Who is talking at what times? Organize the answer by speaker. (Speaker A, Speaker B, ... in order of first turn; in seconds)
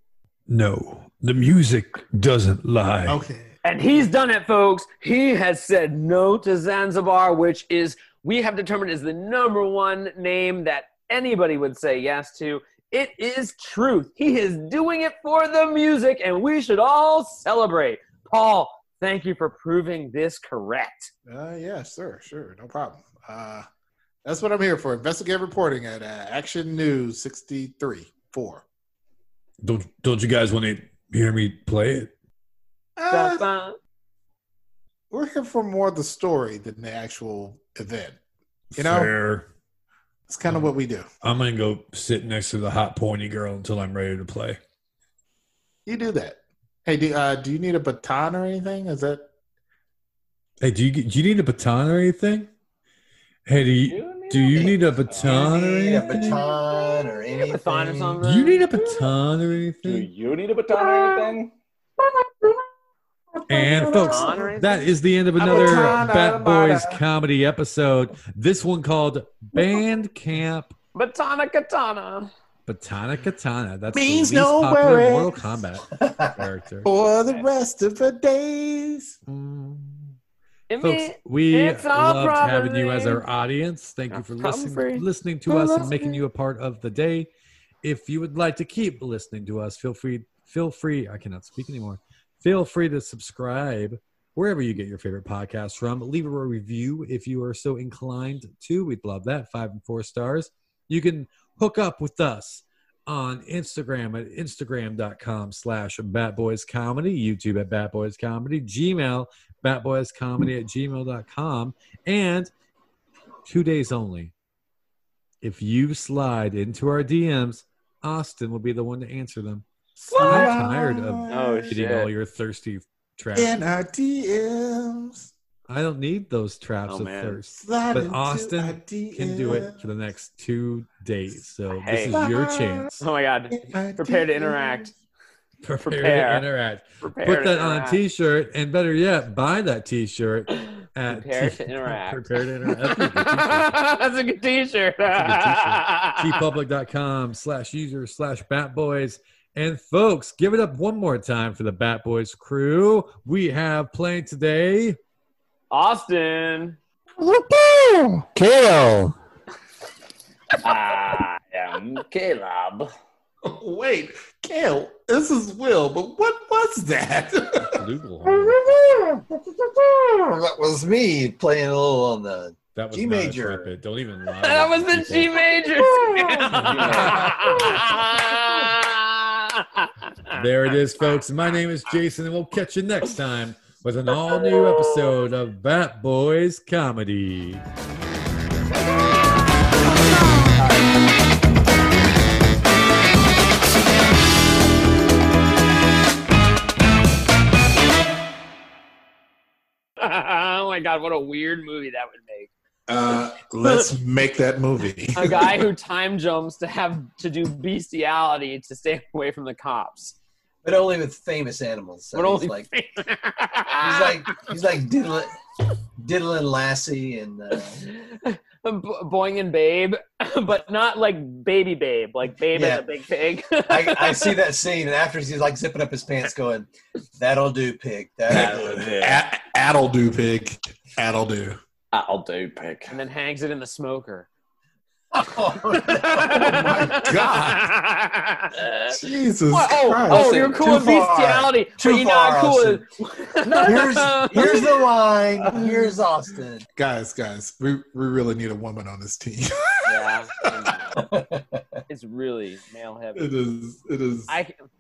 Speaker A: 0.5-3.2, 29.6-32.1, 38.7-39.5, 41.2-44.6, 50.6-52.5, 53.5-56.5, 58.2-60.1, 63.5-70.7, 72.7-76.9, 79.3-80.1, 80.8-87.3, 87.8-112.5, 113.4-114.3, 115.4-123.5, 125.7-133.0, 135.6-143.8, 145.1-155.0, 167.6-168.6, 172.7-175.4, 176.5-177.7, 180.3-187.6
Speaker B: 3.0-3.5, 21.2-23.7, 24.2-28.6, 33.0-33.5, 35.1-38.2, 38.8-39.1, 40.3-41.1, 45.9-49.3, 63.5-64.5, 65.4-67.0, 73.9-75.4, 76.8-79.2, 120.1-121.7, 123.3-125.3, 127.5-129.9, 132.1-132.9, 133.5-134.9, 157.4-159.1, 163.4-167.7, 176.0-176.3, 202.9-205.7, 228.3-231.6, 236.2-237.7, 238.9-241.4, 246.8-250.2, 253.1-254.3
Speaker C: 3.6-21.1, 33.1-33.8, 57.4-58.8, 63.8-65.0, 65.5-65.9, 70.9-72.3, 80.7-83.2, 84.1-86.2, 120.1-120.4, 121.3-122.1, 126.9-127.4, 131.7-132.2, 133.0-134.9, 135.8-136.4, 137.0-138.0, 140.6-146.4, 155.7-156.8, 174.3-180.4, 184.1-185.2, 200.0-202.5, 205.1-210.1, 212.1-214.2, 217.8-224.4, 232.9-234.3, 235.7-239.0, 239.5-244.6, 249.8-251.0, 251.9-253.3, 254.3-254.6
Speaker D: 53.8-55.5, 59.8-61.5, 160.6-162.9, 176.5-177.3, 228.3-229.2, 231.9-232.9
Speaker E: 54.5-58.2, 76.0-76.3, 168.5-173.8, 210.6-212.7, 213.8-215.3, 216.0-217.8, 222.5-222.8, 223.7-228.9, 235.1-236.8, 240.1-242.8, 243.6-246.7, 250.9-251.6